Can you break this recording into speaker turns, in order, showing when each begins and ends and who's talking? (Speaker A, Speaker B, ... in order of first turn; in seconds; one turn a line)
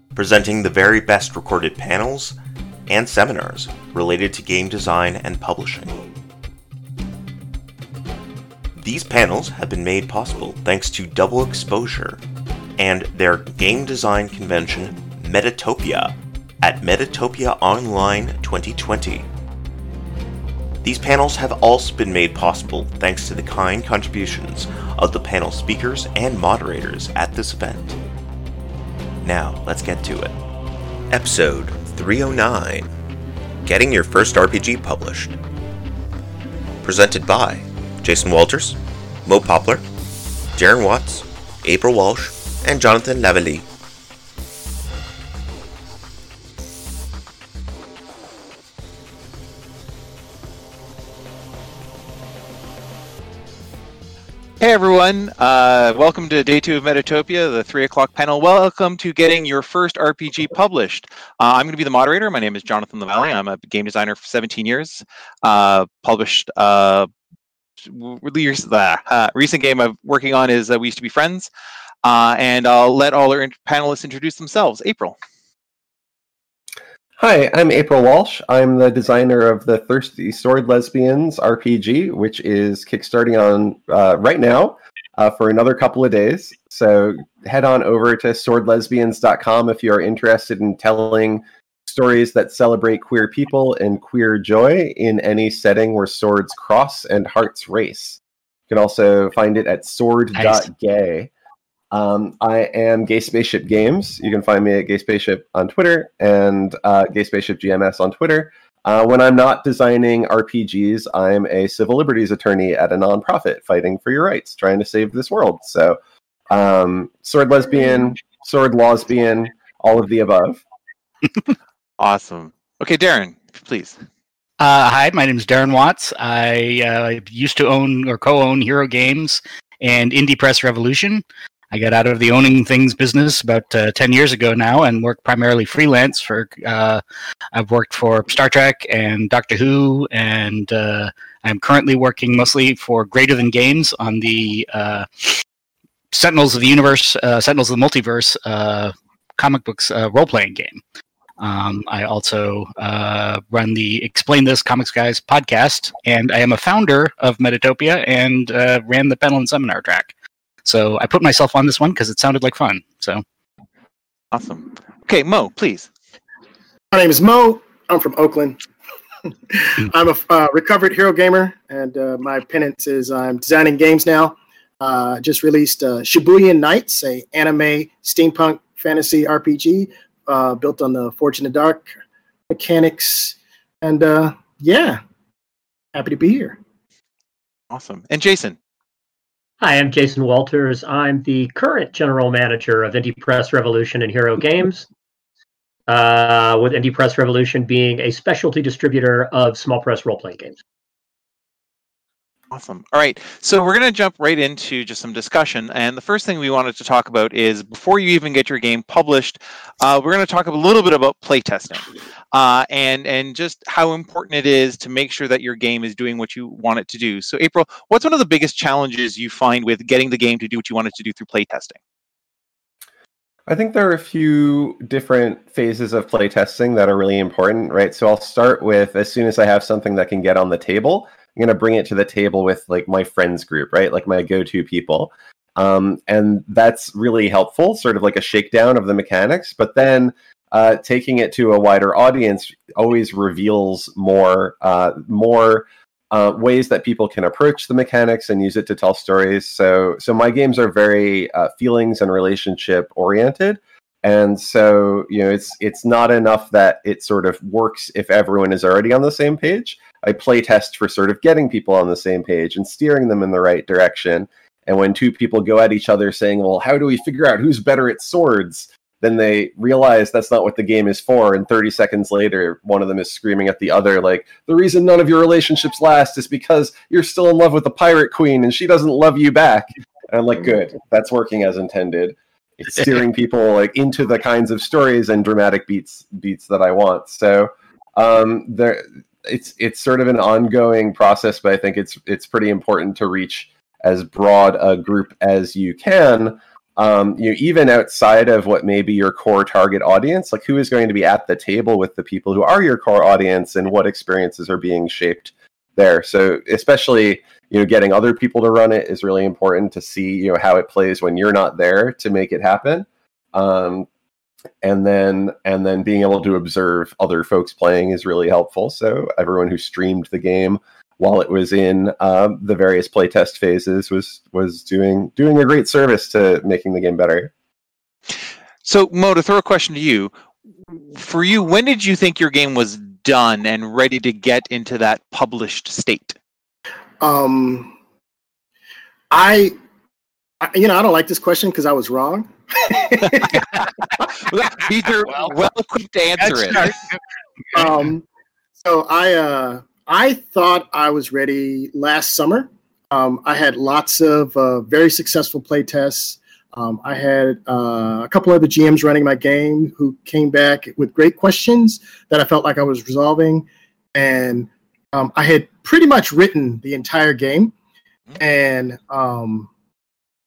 Speaker A: 0.1-6.0
Speaker A: 8.8-12.2
Speaker A: 12.8-19.3
Speaker A: 20.8-28.0
Speaker A: 29.2-30.4
Speaker A: 31.1-32.9
Speaker A: 33.6-35.4
Speaker A: 36.8-39.9
Speaker A: 40.5-43.7
Speaker B: 54.6-67.1
Speaker B: 67.8-71.5
Speaker B: 72.0-75.2
Speaker C: 77.2-101.3
Speaker D: 100.3-100.7
Speaker C: 101.9-116.0
Speaker C: 116.5-120.6
Speaker B: 122.0-124.0
Speaker D: 124.6-137.0
Speaker D: 137.5-145.4
Speaker D: 146.1-150.8
Speaker D: 151.4-160.1
Speaker D: 160.7-163.2
Speaker B: 164.3-165.9
Speaker E: 166.9-168.6
Speaker E: 169.5-181.9
Speaker E: 182.5-185.0
Speaker E: 185.9-186.6
Speaker B: 187.7-188.6
Speaker F: 189.6-194.9
Speaker F: 195.9-200.6
Speaker B: 202.5-221.8
Speaker C: 223.5-313.9
Speaker C: 314.6-327.3
Speaker B: 328.6-330.1
Speaker B: 330.7-336.2
Speaker E: 337.0-337.7
Speaker E: 339.1-339.5
Speaker E: 340.4-343.6
Speaker B: 344.3-346.7
Speaker D: 346.2-347.0
Speaker E: 347.5-348.1
Speaker E: 348.6-367.5
Speaker E: 368.2-369.5